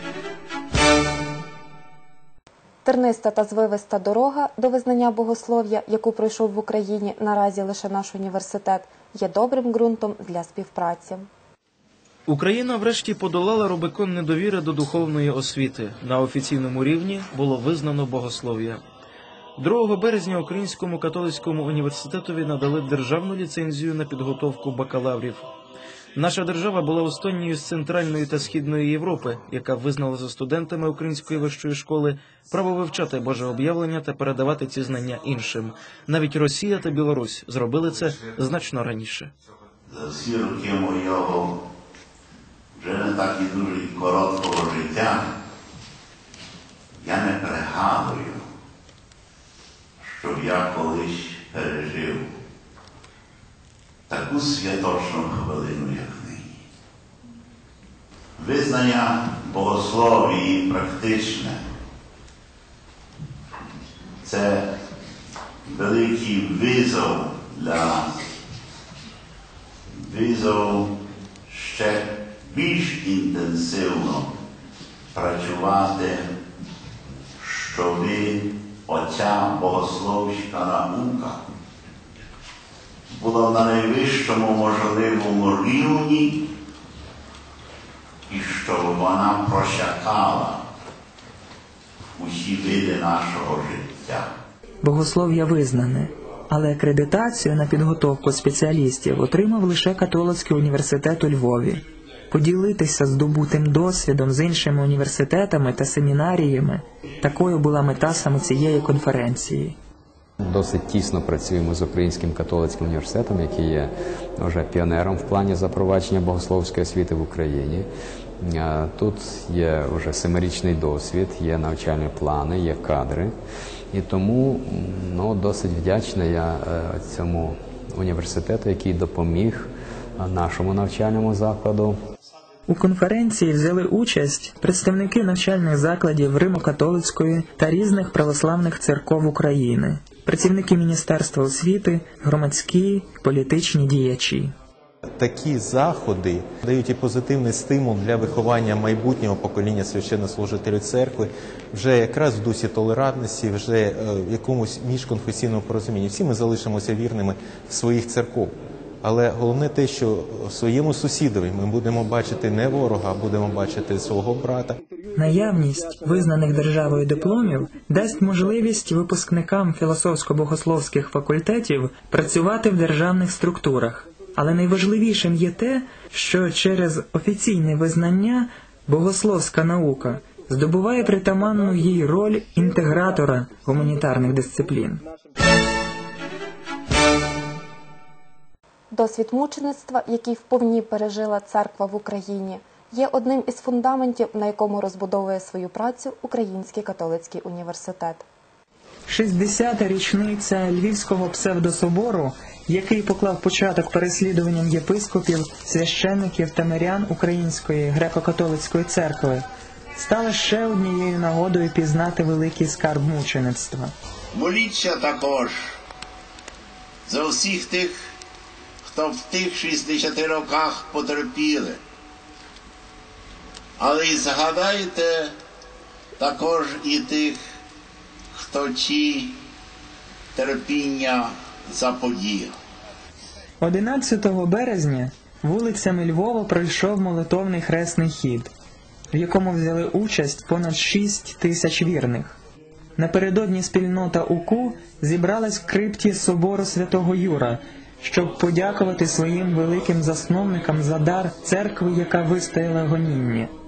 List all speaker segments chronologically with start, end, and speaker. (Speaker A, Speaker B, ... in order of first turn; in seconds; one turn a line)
Speaker A: 2.8-11.3
Speaker B: 12.3-18.8
Speaker B: 19.6-25.5
Speaker B: 26.1-39.3
Speaker C: 39.9-41.5
Speaker C: 42.8-45.3
Speaker C: 47.0-48.4
Speaker C: 50.0-52.3
Speaker C: 54.1-56.6
Speaker C: 58.4-61.6
Speaker C: 64.2-64.7
Speaker C: 65.7-68.2
Speaker C: 69.9-70.9
Speaker C: 71.5-74.3
Speaker C: 75.1-76.2
Speaker C: 77.4-81.4
Speaker C: 83.1-86.4
Speaker C: 88.3-90.6
Speaker C: 92.2-94.3
Speaker D: 94.8-109.8
Speaker E: 110.4-117.9
Speaker E: 118.4-123.3
Speaker E: 123.9-132.0
Speaker D: 132.7-144.5
Speaker F: 145.2-164.8
Speaker D: 165.2-185.0
Speaker A: 188.9-198.2
Speaker D: 199.1-213.9
Speaker C: 214.3-215.5
Speaker C: 217.1-217.9
Speaker C: 218.8-221.8
Speaker C: 223.8-225.3
Speaker C: 226.2-227.4
Speaker C: 228.3-229.3
Speaker C: 230.3-232.5
Speaker D: 233.6-238.5
Speaker D: 239.1-242.4
Speaker D: 243.0-253.5